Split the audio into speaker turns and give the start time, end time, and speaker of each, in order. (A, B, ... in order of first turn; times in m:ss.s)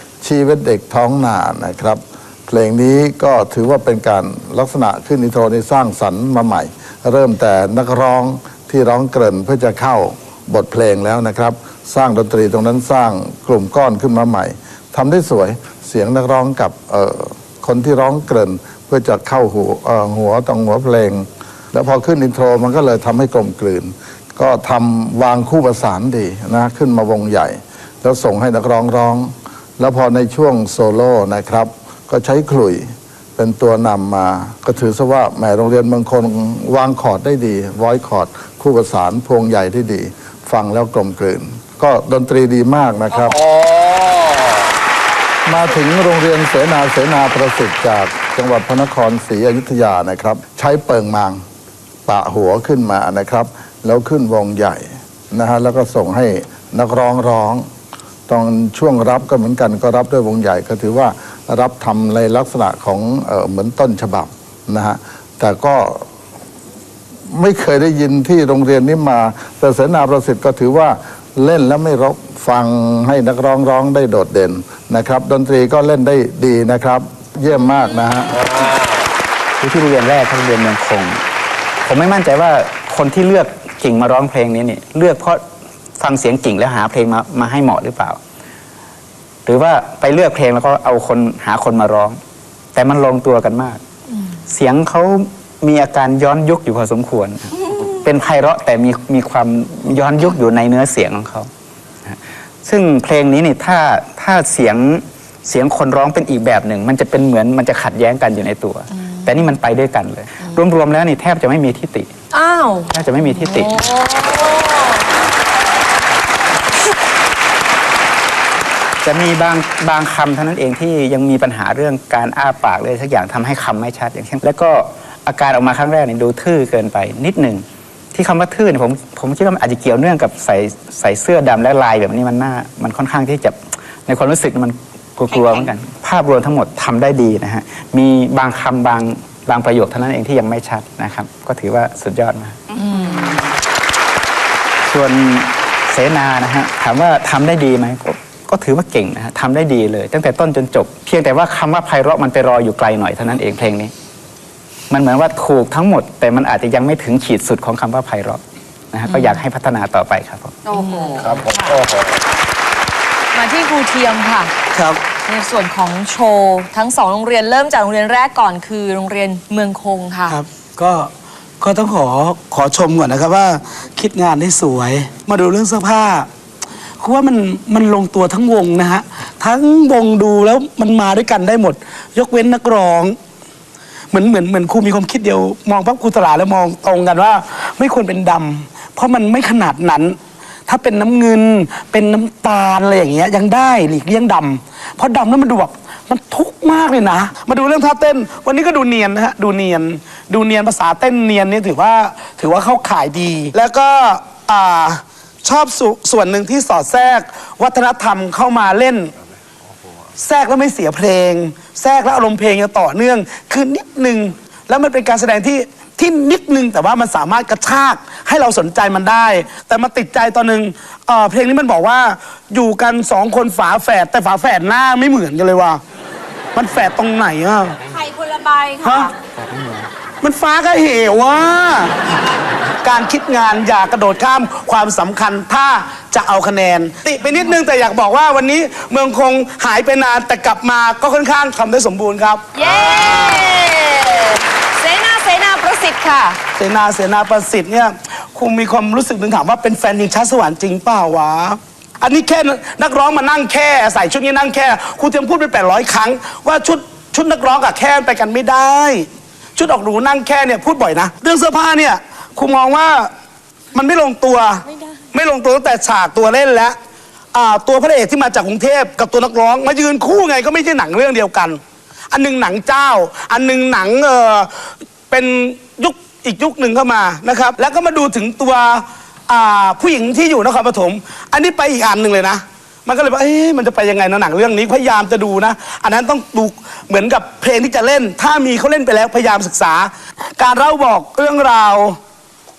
0:00.2-0:43.4 A
0:43.1-0:44.5 B
0:45.5-0:51.4 A
0:52.1-0:57.7 A
0:58.3-1:06.0 A
1:07.3-1:18.4 A
1:18.3-1:19.0 B
1:19.6-1:21.2 C
1:21.8-1:25.4 C
1:26.0-1:28.2 C
1:29.5-1:32.2 C
1:32.8-1:33.8 C
1:34.5-1:41.5 C
1:42.1-1:52.1 C
1:52.3-1:55.2 D
1:52.9-1:53.8 C
1:59.0-2:22.6 C
2:15.3-2:15.7 E
2:22.7-2:23.4 E
2:24.9-2:33.9 C
2:34.9-2:38.4 C
2:38.9-2:40.6 C
2:39.1-2:39.4 D
2:40.7-2:41.2 E
2:40.7-2:41.2 D
2:41.2-2:42.2 B
2:43.3-2:44.5 D
2:44.7-2:45.0 F
2:45.2-2:50.4 D
2:50.3-2:56.3 F
2:57.0-3:03.2 F
3:04.1-3:29.1 F
3:30.2-3:45.8 F
3:46.6-3:47.8 F
3:47.9-3:49.1 E
3:48.8-3:49.1 F
3:50.2-3:51.9 F
3:52.8-4:03.2 F
4:02.6-4:06.4 D
4:06.6-4:23.1 F
4:23.7-4:26.8 F
4:27.3-4:31.6 F
4:32.1-4:34.5 F
4:35.1-4:52.0 F